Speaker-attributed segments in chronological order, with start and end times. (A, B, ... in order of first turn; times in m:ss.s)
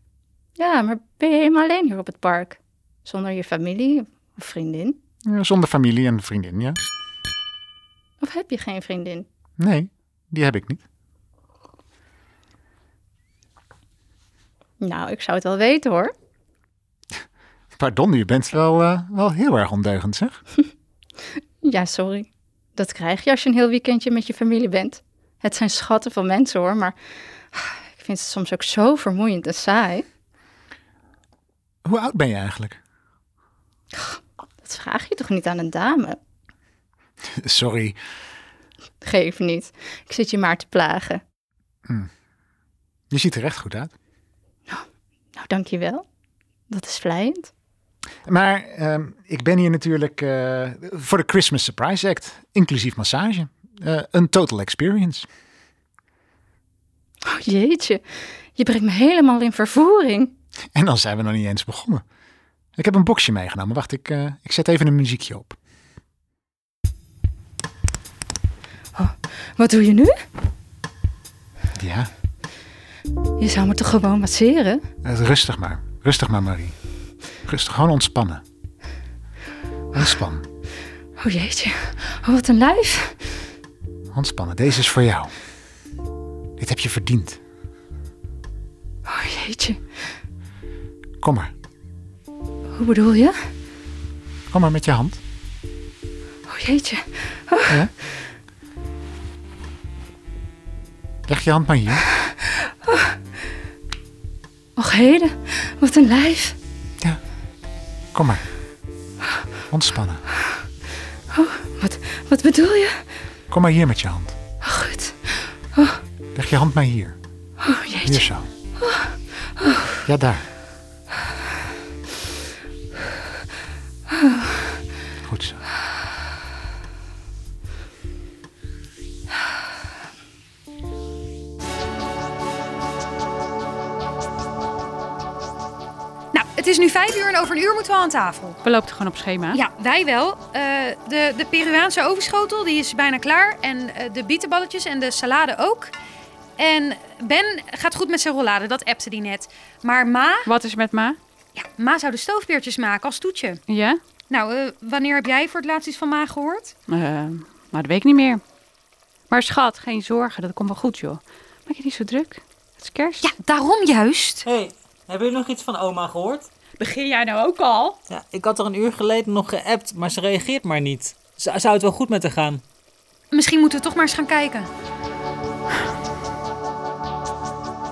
0:00.6-0:05.0 A
0:05.3-0:06.8 B
0:08.2-0:09.3 A
0:09.6-0:10.8 B
0:14.8-0:16.1 A
0:17.8-0:20.4 B
0:21.6-0:27.0 A
0:27.5-0:30.1 A
0:31.9-0:32.8 B
0:33.9-0:36.2 A
0:37.4-0:38.0 B
0:39.0-0:41.2 A
0:43.1-0:43.9 B
0:45.4-0:46.0 A
0:46.7-0:47.5 A
0:48.3-0:55.3 B
0:57.3-0:58.0 A
0:58.6-1:00.3 A
1:00.8-1:02.0 B
1:02.8-1:05.6 B
1:09.0-1:10.1 A
1:11.8-1:12.1 B
1:13.4-1:14.8 A
1:15.0-1:16.7 B
1:17.5-1:18.4 B
1:19.9-1:20.4 B
1:21.2-1:23.3 A
1:24.1-1:25.3 B
1:26.6-1:27.4 B
1:29.1-1:29.8 A
1:31.2-1:31.5 B
1:32.8-1:33.4 A
1:34.5-1:35.2 B
1:36.5-1:37.8 A
1:41.3-1:42.0 B
1:44.8-1:46.6 A
1:48.2-1:48.4 B
1:49.7-1:50.2 B
1:51.3-1:53.0 A
1:53.5-1:54.4 B
1:54.6-1:56.0 A
1:56.4-1:57.2 B
1:57.6-1:58.3 A
1:58.0-1:58.5 B
1:58.8-2:00.0 A
2:00.1-2:00.5 B
2:05.3-2:05.6 B
2:16.3-2:18.6 C
2:18.6-2:19.6 D
2:19.5-2:25.9 C
2:26.6-2:30.5 C
2:30.5-2:31.2 D
2:31.6-2:33.6 C
2:33.7-2:34.0 D
2:34.3-2:36.8 C
2:36.9-2:38.4 D
2:39.3-2:43.3 D
2:43.2-2:44.4 C
2:44.4-2:46.5 E
2:46.8-2:48.0 D
2:48.1-2:52.6 E
2:53.3-2:54.7 C